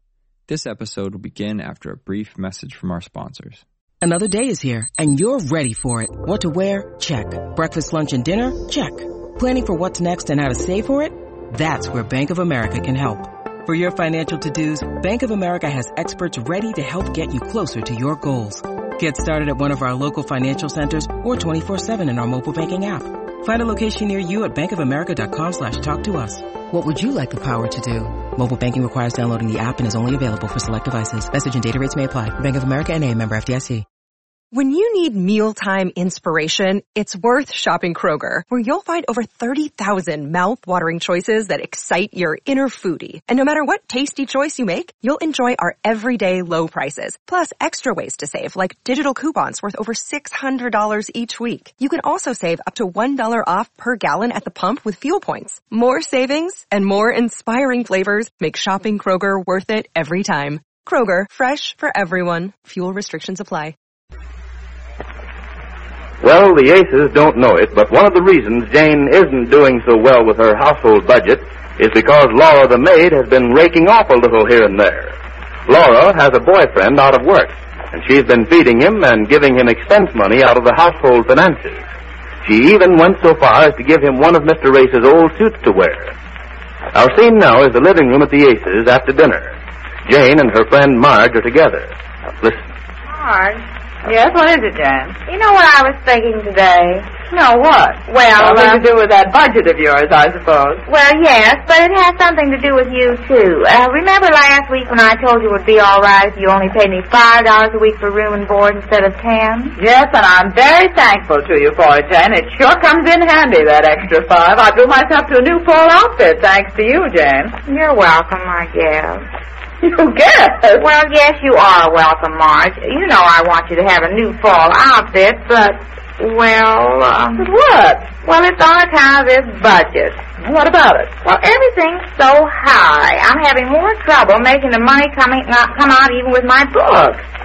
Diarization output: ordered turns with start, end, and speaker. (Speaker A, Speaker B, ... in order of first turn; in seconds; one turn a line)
Speaker A: 0.5-3.6
Speaker B: 4.0-33.8
Speaker C: 34.5-63.7
Speaker D: 66.2-75.2
Speaker D: 75.7-81.8
Speaker D: 82.4-86.1
Speaker D: 86.9-89.5
Speaker D: 90.0-92.6
Speaker E: 93.2-95.1
Speaker F: 95.3-97.1
Speaker E: 97.3-100.8
Speaker F: 98.1-98.8
Speaker F: 100.9-109.7
Speaker E: 109.8-117.5
Speaker F: 117.7-119.2
Speaker E: 119.8-120.8
Speaker F: 120.8-127.4
Speaker E: 127.4-128.1
Speaker F: 128.2-130.2
Speaker E: 130.4-131.1
Speaker F: 131.2-137.2